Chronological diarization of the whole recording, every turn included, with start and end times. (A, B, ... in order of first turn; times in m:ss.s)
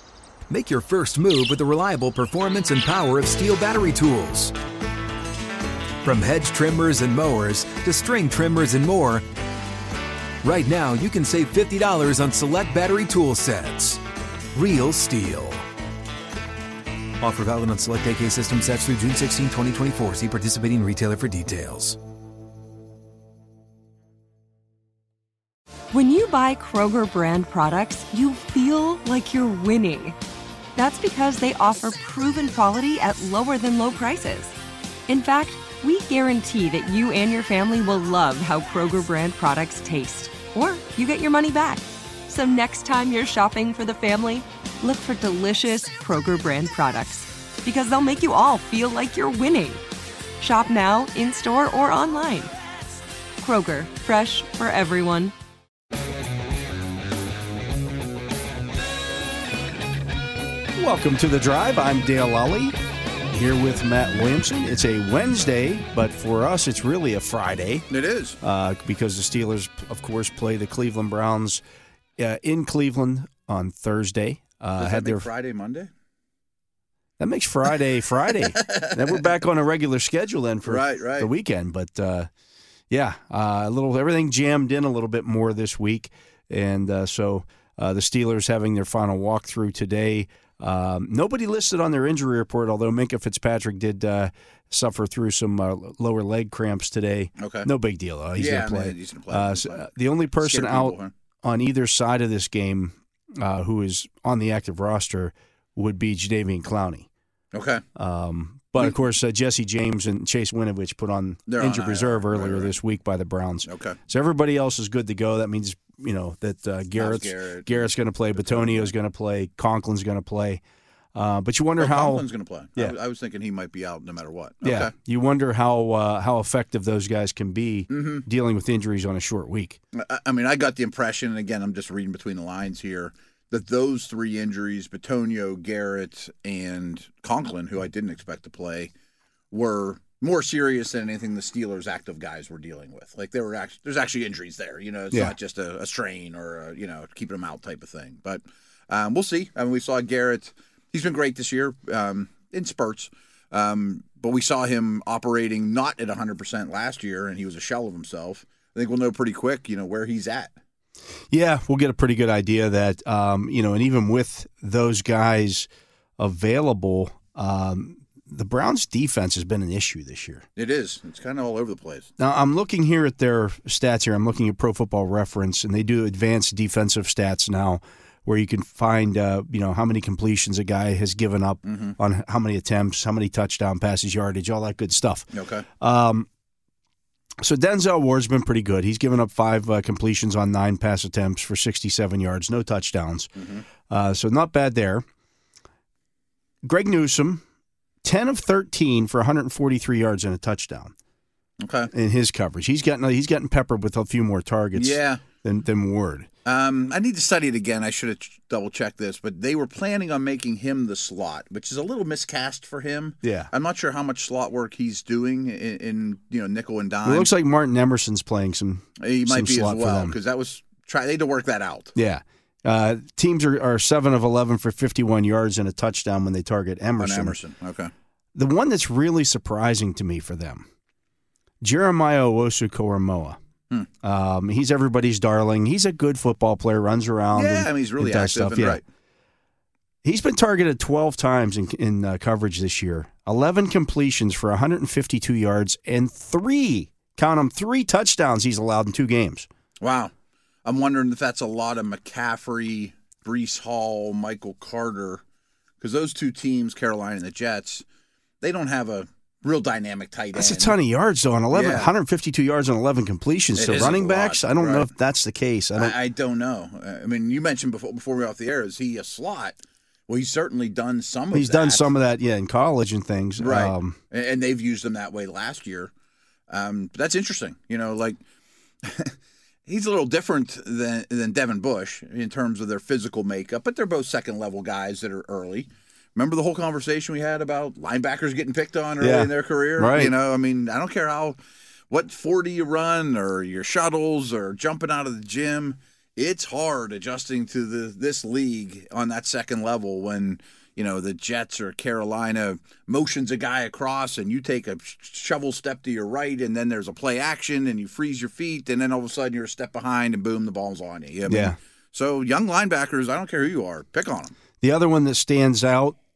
0:00.5-0:04.5 A
0:06.0-0:09.3 A
0:10.4-0:14.0 A
0:14.5-0:15.7 A
0:17.2-0:22.0 A
0:25.9-0:30.2 B
0:30.8-0:34.5 B
0:35.1-0:49.8 B
0:50.4-0:52.5 B
0:53.4-0:55.3 B
1:00.8-1:02.8 C
1:03.3-1:07.9 C
1:07.9-1:08.4 D
1:08.4-1:11.6 C
1:12.2-1:15.3 C
1:14.8-1:15.9 D
1:17.2-1:22.3 C
1:18.5-1:19.2 D
1:20.6-1:21.3 D
1:22.9-1:47.1 C
1:37.4-1:37.7 D
1:38.4-1:41.1 D
1:47.5-1:47.8 D
1:48.0-2:00.6 C
1:51.5-1:52.7 D
1:53.6-1:54.0 D
1:57.0-1:58.9 D
2:01.2-2:03.0 C
2:01.8-2:04.9 D
2:04.6-2:09.8 C
2:07.9-2:08.2 D
2:09.9-2:18.9 D
2:19.5-2:40.5 D
2:41.3-2:50.5 C
2:50.6-2:52.1 D
2:52.2-3:06.3 C
3:01.6-3:02.0 D
3:05.3-3:05.6 D
3:07.4-3:13.3 C
3:13.4-3:13.6 D
3:13.9-3:15.0 C
3:16.6-3:17.4 C
3:18.0-3:20.9 C
3:21.6-3:21.9 D
3:21.9-3:26.3 C
3:24.7-3:25.2 D
3:26.4-3:37.3 D
3:33.2-3:33.5 C
3:37.0-3:40.2 C
3:39.0-3:42.0 D
3:42.0-3:47.4 C
3:47.0-3:47.9 D
3:48.4-3:50.6 C
3:51.6-3:53.4 C
3:54.0-3:58.8 C
3:57.3-3:58.8 D
4:00.0-4:09.5 C
4:09.8-4:10.1 D
4:10.6-4:15.2 D
4:15.8-4:17.8 D
4:18.4-4:20.8 D
4:20.3-4:26.0 C
4:21.5-4:21.9 D
4:23.6-4:24.9 D
4:25.8-4:29.6 D
4:30.1-4:31.9 D
4:31.3-4:34.0 C
4:33.4-4:35.9 D
4:36.5-4:38.2 D
4:38.8-4:39.2 D
4:39.7-4:51.4 D
4:49.0-4:50.1 C
4:51.9-5:14.4 D
5:11.3-5:11.6 C
5:14.6-5:16.0 C